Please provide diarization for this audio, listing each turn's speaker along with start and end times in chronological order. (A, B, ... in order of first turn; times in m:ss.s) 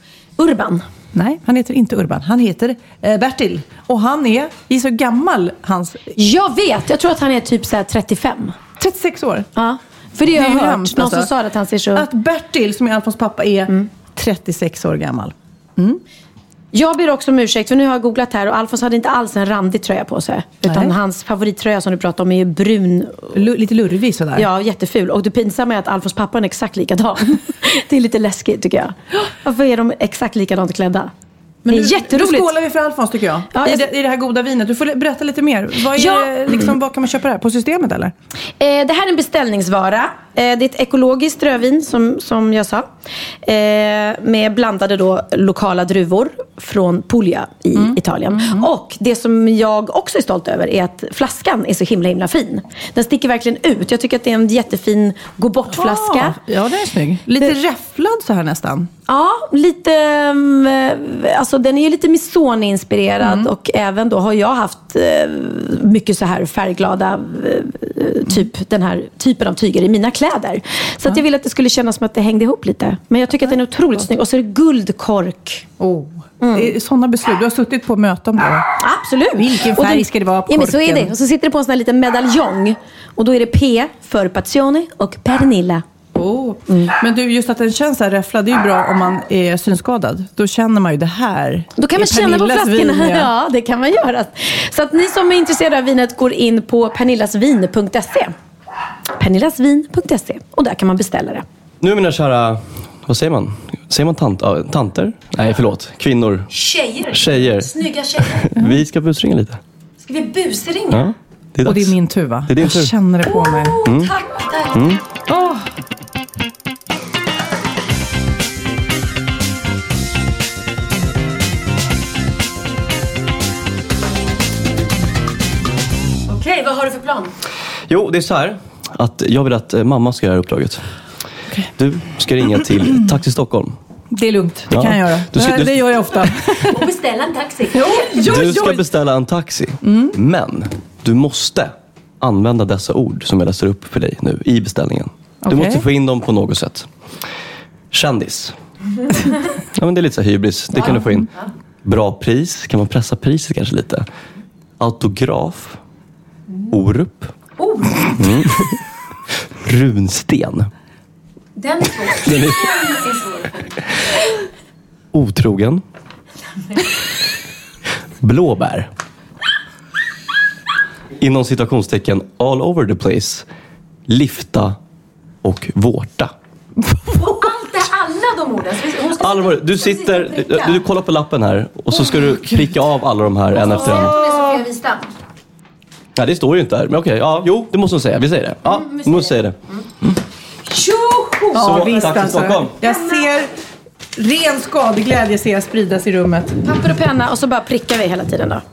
0:00.4-0:00.8 A
0:01.1-0:06.1 B
0:06.2-0:08.6 A
0:08.8-0:09.5 B
0:09.6-0:12.0 A
0:10.3-0:11.3 B
0:11.9-0:16.0 B
0:16.7-0:23.3 A
0:20.6-0:20.9 B
0:23.3-0:24.5 B
0:24.4-0:31.1 A
0:31.6-0:38.1 B
0:31.7-0:32.5 A
0:33.5-0:33.8 A
0:36.0-0:36.7 A
0:38.6-0:42.9 A
0:43.4-0:56.4 A
0:47.7-0:48.7 B
0:55.7-0:58.9 B
0:59.1-1:15.6 A
1:03.2-1:03.5 B
1:13.4-1:14.0 B
1:15.8-1:18.7 B
1:16.4-1:16.7 A
1:18.8-1:25.8 A
1:19.4-1:21.1 B
1:26.1-1:33.3 B
1:31.8-1:38.3 A
1:39.2-1:41.4 A
1:41.8-1:46.5 C
1:46.5-1:48.5 A
1:47.1-1:47.7 C
1:48.3-1:49.6 C
1:50.0-1:51.1 A
1:50.9-1:52.0 C
1:51.6-1:53.8 B
1:52.5-1:52.9 C
1:53.2-1:55.0 A
1:53.8-1:54.1 C
1:54.7-1:55.0 C
1:55.3-1:55.6 B
2:06.3-2:07.3 A
2:07.9-2:10.8 C
2:11.8-2:13.8 C
2:14.1-2:16.8 B
2:14.7-2:15.8 C
2:16.6-2:18.2 A
2:17.7-2:18.8 B
2:18.2-2:26.9 C
2:19.8-2:20.1 B
2:25.4-2:25.8 B
2:27.9-2:28.5 C
2:29.8-2:31.3 C
2:31.8-2:34.0 C
2:34.8-2:35.8 C
2:36.7-2:37.3 C
2:37.6-2:38.1 A
2:38.2-2:38.8 C
2:39.6-2:40.7 C
2:41.6-2:43.8 A
2:42.2-2:42.6 C
2:45.1-2:45.8 C
2:48.2-2:48.9 C
2:51.2-2:53.4 C
2:54.1-2:54.8 C
2:55.4-2:56.3 C
2:57.1-3:00.8 A
2:59.2-3:04.2 C
3:03.5-3:05.1 A
3:06.2-3:09.6 C
3:08.9-3:09.3 A
3:10.7-3:12.2 A
3:11.5-3:13.5 B
3:11.6-3:12.7 C
3:12.8-3:13.2 A
3:14.2-3:16.6 B
3:16.6-3:18.6 A